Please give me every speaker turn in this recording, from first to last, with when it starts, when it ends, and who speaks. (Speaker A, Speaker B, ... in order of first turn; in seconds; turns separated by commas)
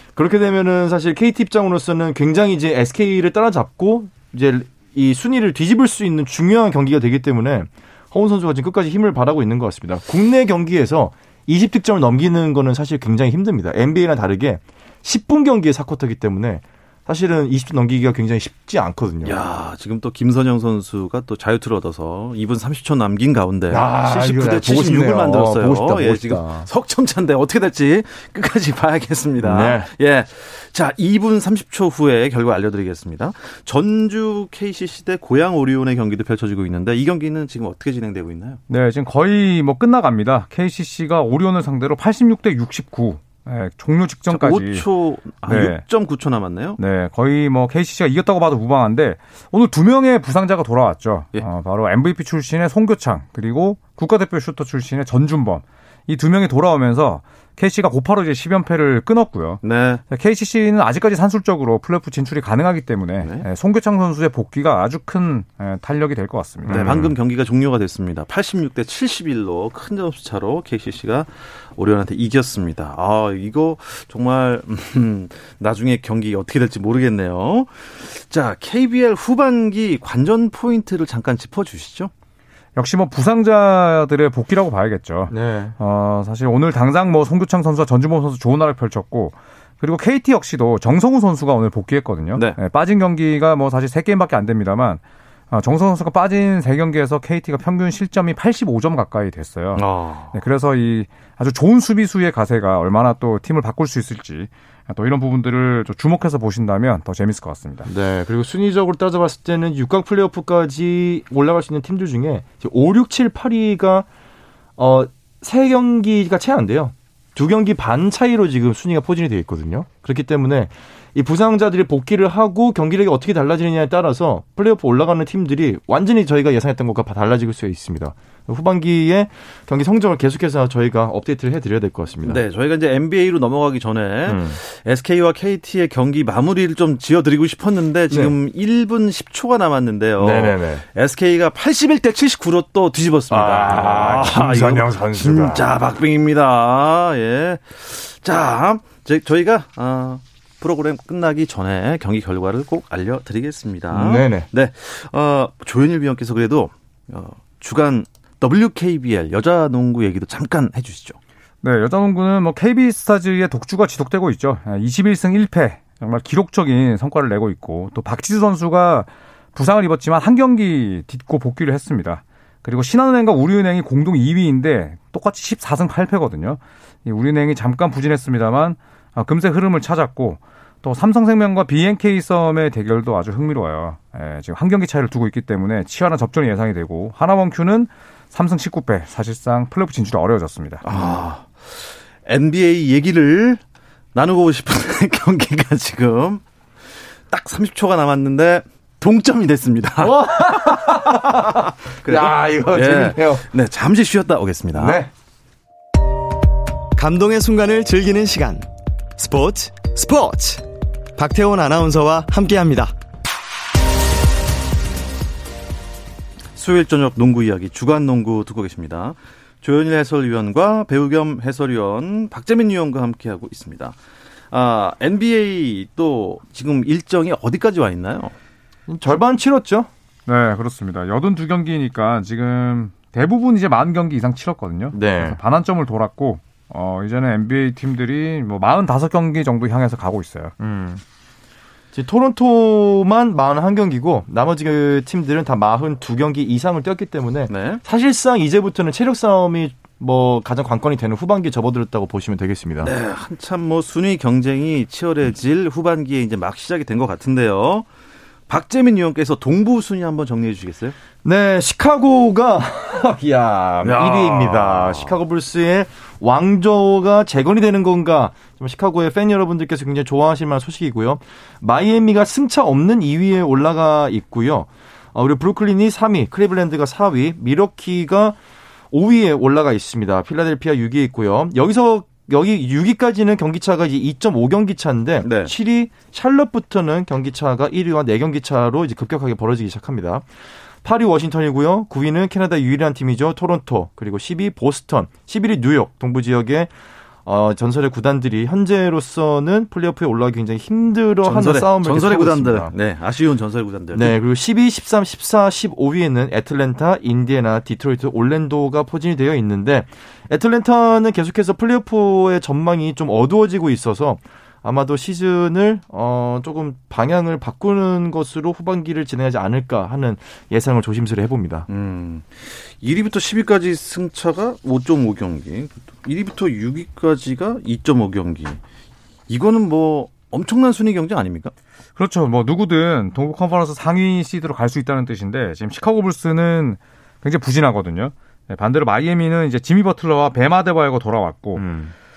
Speaker A: 0.1-19.4, Speaker B: 19.2-38.6, Speaker A: 23.7-26.7, Speaker A: 29.4-29.9, Speaker C: 38.7-44.9, Speaker B: 44.3-46.8, Speaker C: 45.4-45.8, Speaker C: 46.8-67.0, Speaker B: 59.6-60.0, Speaker B: 63.2-63.5, Speaker A: 66.7-67.1, Speaker B: 66.7-82.1, Speaker C: 82.8-107.9, Speaker A: 85.3-85.7, Speaker B: 99.7-100.3, Speaker A: 107.8-114.1, Speaker A: 114.8-132.4, Speaker B: 132.2-161.2, Speaker A: 134.3-134.6, Speaker A: 140.2-140.8, Speaker A: 143.3-145.6, Speaker A: 153.9-154.5, Speaker C: 161.6-190.8, Speaker B: 190.8-193.6, Speaker B: 194.1-205.0, Speaker A: 200.0-203.4, Speaker A: 204.7-205.1, Speaker D: 206.9-212.9, Speaker B: 216.6-224.0, Speaker B: 224.5-228.3, Speaker A: 228.9-229.9, Speaker C: 230.2-240.5, Speaker A: 234.9-235.4, Speaker A: 240.6-241.0, Speaker A: 241.9-252.9, Speaker B: 247.5-247.8, Speaker B: 252.8-257.9, Speaker B: 258.5-260.9, Speaker A: 261.2-278.4, Speaker B: 263.8-265.1, Speaker A: 278.9-290.3, Speaker B: 285.2-285.5, Speaker A: 290.8-296.7, Speaker A: 297.2-302.7, Speaker B: 301.2-304.2, Speaker A: 303.9-321.6, Speaker B: 321.7-328.6, Speaker B: 329.3-331.5, Speaker C: 331.9-341.7, Speaker A: 341.6-341.9